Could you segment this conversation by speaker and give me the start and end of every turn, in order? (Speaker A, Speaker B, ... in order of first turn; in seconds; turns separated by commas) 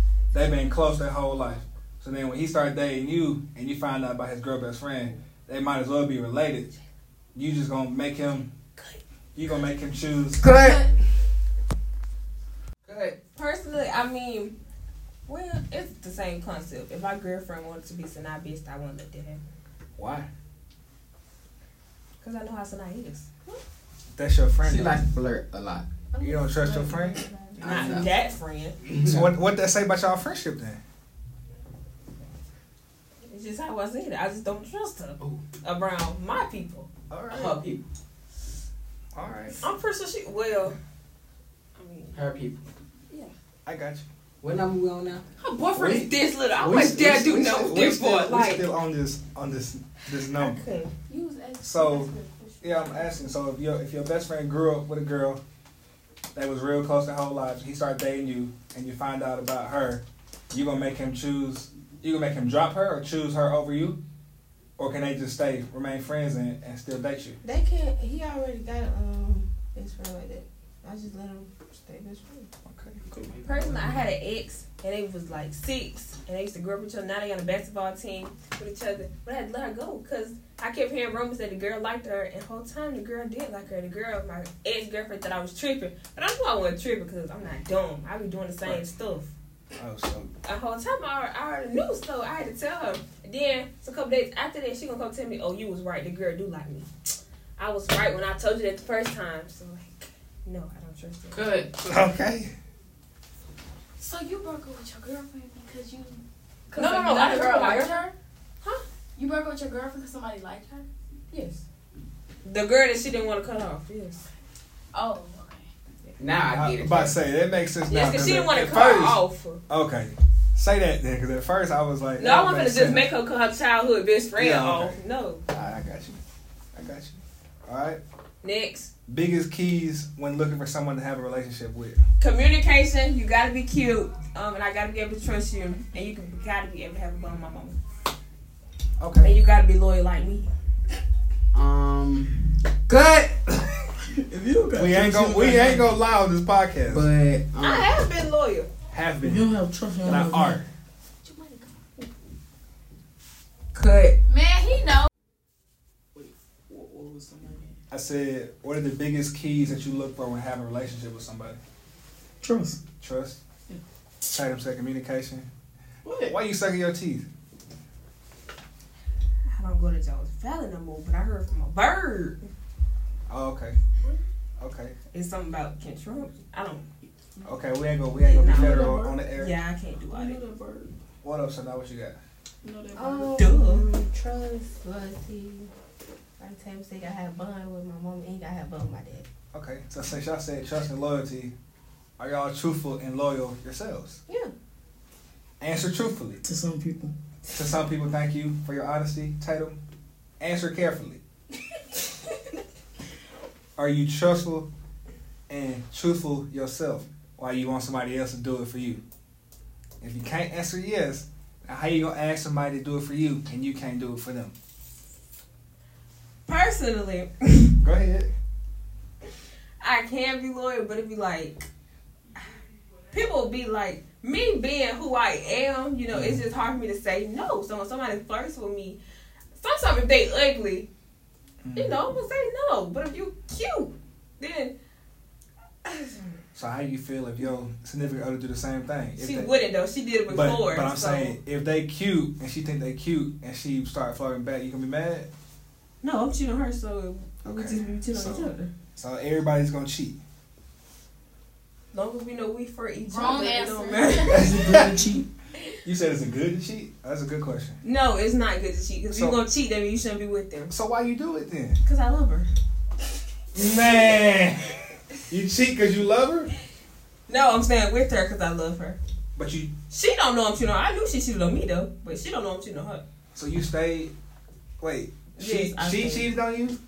Speaker A: 0.3-6.7, Speaker A: 7.3-8.5, Speaker A: 9.3-10.5, Speaker B: 10.4-10.8, Speaker C: 10.6-10.9, Speaker B: 12.8-13.2, Speaker D: 13.3-14.5, Speaker D: 15.3-19.4, Speaker A: 20.0-20.3, Speaker D: 22.2-23.6, Speaker A: 24.1-25.0, Speaker B: 24.6-25.9, Speaker E: 26.1-28.0, Speaker A: 26.2-27.2, Speaker B: 27.6-28.1, Speaker D: 27.6-28.8, Speaker B: 28.8-29.3, Speaker A: 29.0-30.8, Speaker D: 33.2-36.9, Speaker A: 37.1-37.6, Speaker B: 37.3-37.8, Speaker A: 39.1-39.6, Speaker D: 39.6-40.8, Speaker D: 41.8-42.2, Speaker B: 42.1-42.6, Speaker A: 43.6-44.0, Speaker B: 44.4-45.2, Speaker D: 45.4-48.6, Speaker A: 45.7-50.6, Speaker D: 50.3-50.9, Speaker C: 51.1-53.1, Speaker A: 51.6-52.1, Speaker A: 52.6-55.4, Speaker A: 56.3-64.0, Speaker A: 64.8-67.4, Speaker E: 67.4-72.5, Speaker A: 72.7-73.1, Speaker B: 73.1-74.0, Speaker D: 73.4-89.3, Speaker A: 89.7-90.3, Speaker D: 90.4-96.9, Speaker D: 97.6-101.4, Speaker B: 101.3-101.7, Speaker A: 101.8-102.5, Speaker C: 104.0-108.1, Speaker D: 106.7-108.0, Speaker C: 109.2-110.8, Speaker D: 111.3-111.6, Speaker D: 112.4-114.2, Speaker C: 114.9-115.7, Speaker B: 116.2-117.2, Speaker A: 116.5-123.1, Speaker D: 117.9-119.6, Speaker D: 122.2-125.4, Speaker A: 124.3-125.0, Speaker A: 125.5-126.2, Speaker A: 126.7-128.0, Speaker D: 128.4-128.9, Speaker A: 129.1-132.0, Speaker D: 132.2-137.8, Speaker A: 139.0-139.3, Speaker D: 139.2-140.5, Speaker B: 141.5-143.3, Speaker F: 144.1-145.9, Speaker A: 144.7-147.1, Speaker B: 146.8-147.9, Speaker D: 147.6-148.7, Speaker A: 148.9-149.5, Speaker F: 149.2-150.6, Speaker A: 150.0-150.7, Speaker C: 151.2-151.7, Speaker D: 153.7-154.1, Speaker C: 154.3-155.1, Speaker F: 156.1-157.8, Speaker A: 157.9-161.6, Speaker F: 162.4-162.8, Speaker A: 163.0-163.4, Speaker A: 164.3-165.5, Speaker F: 166.0-166.4, Speaker A: 166.3-167.2, Speaker D: 169.5-172.4, Speaker A: 173.3-173.8, Speaker A: 174.6-174.9, Speaker D: 175.1-176.8, Speaker A: 177.4-179.5, Speaker D: 178.2-180.4, Speaker F: 178.4-179.2, Speaker F: 180.1-180.9, Speaker A: 181.2-182.2, Speaker F: 182.6-183.5, Speaker E: 182.9-185.7, Speaker D: 183.4-183.8, Speaker E: 186.4-189.3, Speaker A: 189.5-191.5, Speaker A: 192.2-194.2, Speaker E: 194.3-194.5, Speaker A: 195.6-196.4, Speaker F: 196.4-197.1, Speaker A: 197.5-199.8, Speaker A: 200.4-201.2, Speaker A: 203.8-204.7, Speaker A: 205.5-209.0, Speaker A: 210.0-214.5, Speaker D: 216.5-217.7, Speaker A: 217.8-218.3, Speaker D: 219.8-221.7, Speaker D: 223.1-229.0, Speaker A: 226.1-226.4, Speaker D: 229.6-230.9, Speaker A: 231.6-232.0, Speaker D: 231.8-234.7, Speaker D: 235.8-236.3, Speaker A: 236.5-239.5, Speaker D: 239.2-241.3, Speaker A: 240.3-245.3, Speaker D: 246.0-248.7, Speaker A: 247.4-250.2, Speaker D: 251.9-254.5, Speaker C: 253.1-254.9, Speaker A: 254.3-255.0, Speaker F: 254.4-255.3, Speaker A: 255.8-257.8, Speaker D: 257.8-260.7, Speaker A: 259.1-259.4, Speaker A: 260.7-261.8, Speaker D: 261.8-262.5, Speaker A: 263.5-264.7, Speaker A: 265.3-266.5, Speaker D: 267.3-269.0, Speaker A: 269.4-269.7, Speaker D: 269.9-273.0, Speaker A: 273.3-274.1, Speaker A: 274.8-276.8, Speaker D: 275.4-276.3